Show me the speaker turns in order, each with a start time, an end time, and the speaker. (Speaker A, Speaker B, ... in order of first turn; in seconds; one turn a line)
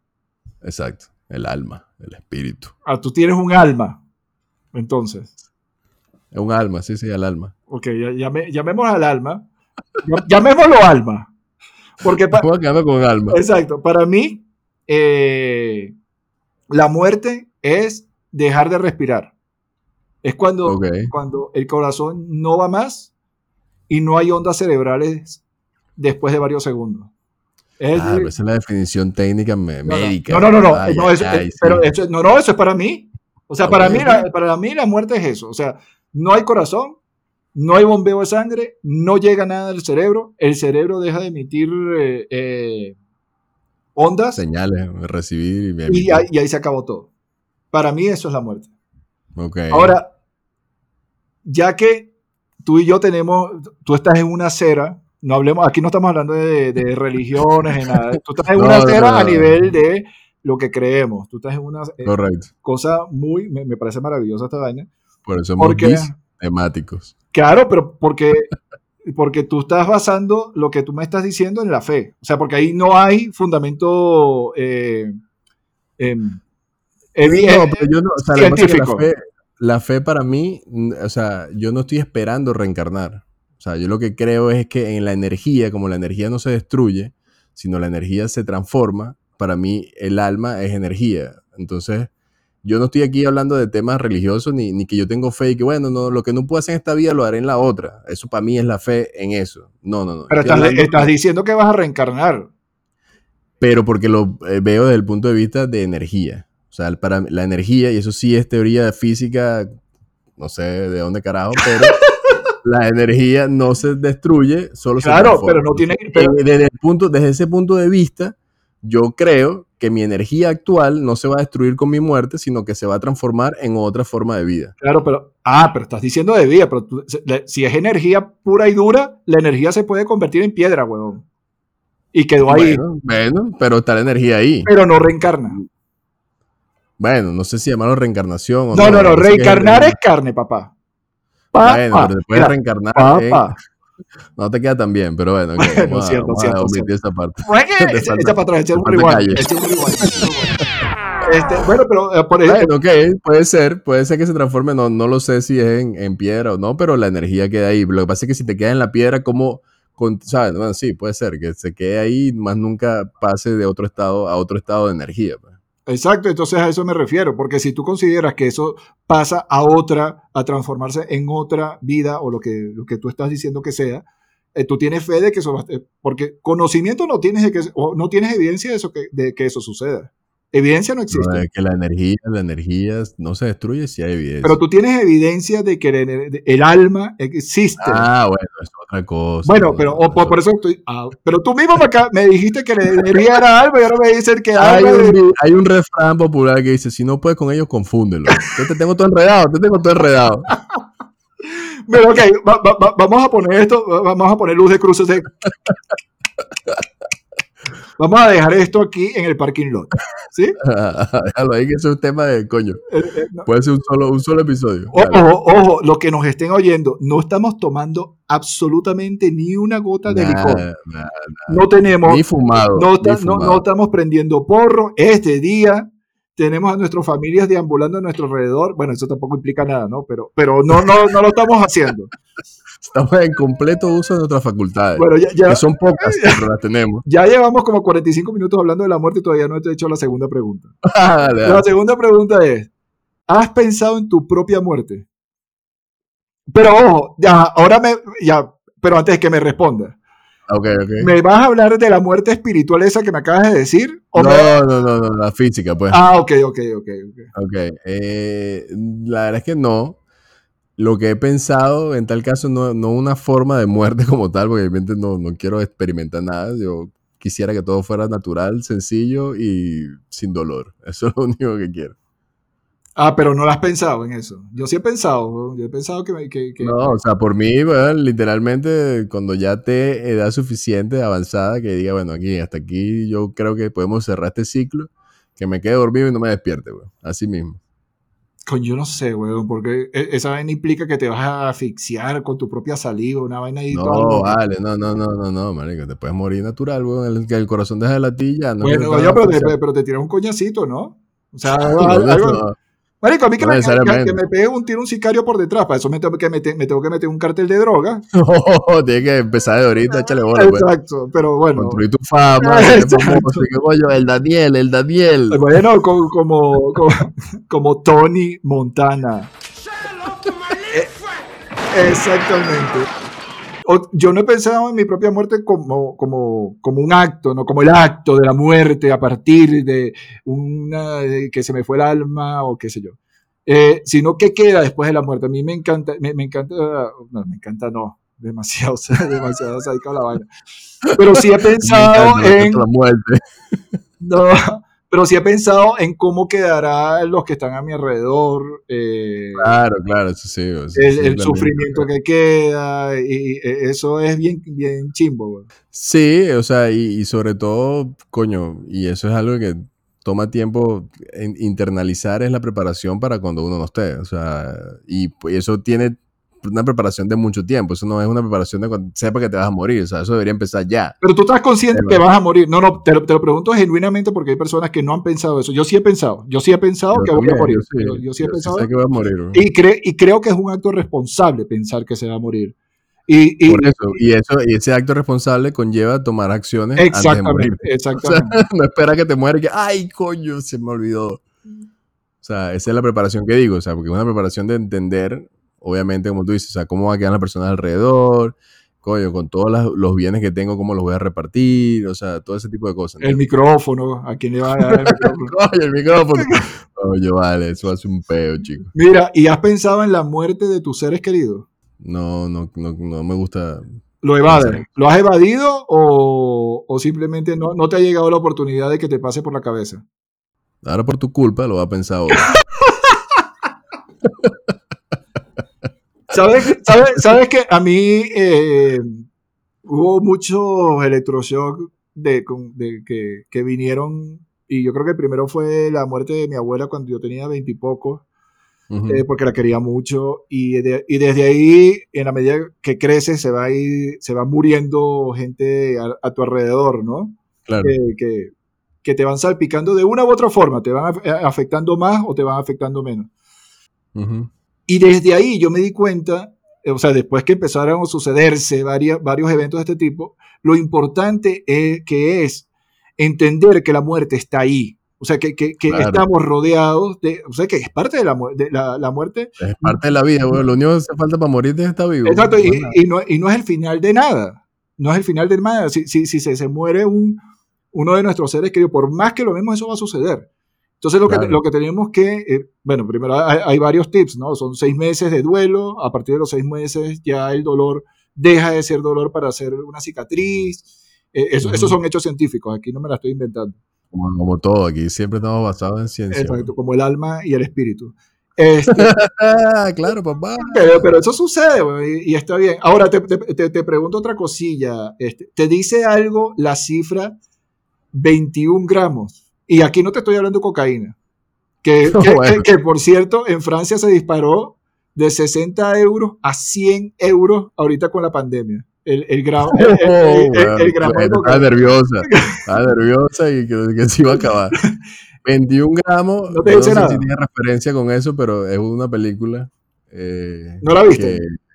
Speaker A: 0.6-2.7
Speaker B: 2.9-4.0
Speaker B: 4.7-5.3
Speaker A: 6.3-7.5
Speaker B: 7.7-9.4
Speaker B: 10.0-11.3
Speaker B: 12.0-12.4
Speaker A: 12.3-13.4
Speaker B: 13.3-15.9
Speaker B: 16.7-19.3
Speaker B: 20.2-23.1
Speaker A: 20.6-21.1
Speaker B: 23.9-25.4
Speaker B: 25.9-27.1
Speaker B: 27.8-28.3
Speaker A: 27.9-31.9
Speaker B: 29.9-37.0
Speaker A: 33.6-34.2
Speaker B: 37.5-43.0
Speaker B: 43.9-44.4
Speaker A: 44.4-46.3
Speaker B: 45.9-47.1
Speaker B: 47.7-48.7
Speaker A: 49.4-50.0
Speaker B: 49.7-50.1
Speaker B: 51.4-52.1
Speaker B: 52.6-64.9
Speaker A: 58.5-59.5
Speaker A: 62.0-62.5
Speaker A: 65.2-67.1
Speaker B: 65.6-66.1
Speaker B: 67.3-68.5
Speaker B: 69.0-75.2
Speaker B: 76.0-76.4
Speaker B: 77.1-79.1
Speaker A: 77.2-92.1
Speaker A: 92.6-101.1
Speaker B: 100.3-102.5
Speaker A: 103.6-109.7
Speaker A: 110.4-112.0
Speaker A: 112.6-124.7
Speaker B: 115.0-116.3
Speaker B: 124.8-131.2
Speaker B: 132.1-132.8
Speaker A: 132.5-134.7
Speaker B: 134.6-135.6
Speaker A: 137.0-139.9
Speaker B: 138.7-140.7
Speaker B: 141.5-143.6
Speaker A: 141.6-143.5
Speaker A: 144.4-149.4
Speaker B: 145.6-146.9
Speaker B: 147.4-150.6
Speaker B: 151.2-152.7
Speaker A: 152.4-165.5
Speaker B: 165.9-181.4
Speaker A: 181.1-184.6
Speaker B: 184.4-188.1
Speaker A: 187.8-190.4
Speaker B: 189.4-195.2
Speaker A: 194.6-200.5
Speaker B: 201.9-205.4
Speaker B: 208.0-210.6
Speaker A: 210.6-212.8
Speaker B: 212.9-213.5
Speaker A: 213.4-215.2
Speaker B: 214.9-220.7
Speaker A: 220.1-223.6
Speaker B: 221.5-232.1
Speaker A: 232.8-237.1
Speaker B: 234.9-236.4
Speaker B: 237.1-240.7
Speaker A: 240.9-241.6
Speaker B: 241.4-242.7
Speaker B: 243.3-245.1
Speaker B: 246.5-249.9
Speaker A: 250.5-251.1
Speaker B: 251.0-254.6
Speaker A: 254.1-256.0
Speaker B: 255.9-257.3
Speaker A: 257.3-260.0
Speaker A: 260.8-271.9
Speaker B: 272.9-277.0
Speaker A: 276.6-287.6
Speaker B: 288.5-294.4
Speaker A: 293.7-299.6
Speaker B: 298.6-302.4
Speaker A: 301.5-302.6
Speaker B: 303.0-308.0
Speaker A: 303.4-304.2
Speaker A: 308.1-310.7
Speaker B: 310.3-311.8
Speaker A: 311.6-315.6
Speaker B: 312.4-313.5
Speaker B: 315.3-319.3
Speaker B: 320.7-320.9
Speaker B: 321.7-322.9
Speaker B: 323.6-340.3
Speaker B: 340.9-342.6
Speaker A: 341.6-343.2
Speaker B: 344.0-349.6
Speaker A: 349.4-351.9
Speaker B: 350.8-355.5
Speaker A: 355.7-371.0
Speaker B: 371.0-378.7
Speaker A: 371.7-372.0
Speaker A: 376.9-379.4
Speaker B: 379.3-382.6
Speaker B: 383.1-384.0
Speaker A: 383.5-391.2
Speaker B: 386.8-388.4
Speaker A: 392.2-403.2
Speaker B: 403.0-405.4
Speaker A: 404.9-408.7
Speaker B: 406.1-406.4
Speaker B: 408.7-411.5
Speaker A: 411.8-413.7
Speaker B: 414.0-419.8
Speaker A: 414.3-414.7
Speaker A: 420.6-422.3
Speaker B: 426.1-429.1
Speaker B: 429.6-438.0
Speaker A: 438.7-439.0
Speaker B: 438.9-448.3
Speaker A: 447.4-447.7
Speaker B: 448.8-453.1
Speaker A: 453.9-454.3
Speaker B: 454.7-462.4
Speaker B: 463.0-469.8
Speaker A: 465.7-466.0
Speaker A: 469.4-472.7
Speaker B: 472.1-477.2
Speaker B: 477.7-480.3
Speaker B: 480.8-493.6
Speaker A: 481.1-481.4
Speaker A: 491.4-491.8
Speaker A: 493.9-496.5
Speaker B: 496.1-499.0
Speaker A: 498.7-500.6
Speaker B: 500.4-507.2
Speaker B: 507.9-511.0
Speaker B: 511.6-521.5
Speaker A: 511.9-512.4
Speaker A: 519.5-524.6
Speaker B: 522.1-522.4
Speaker A: 525.2-531.4
Speaker B: 526.3-527.1
Speaker B: 530.6-531.2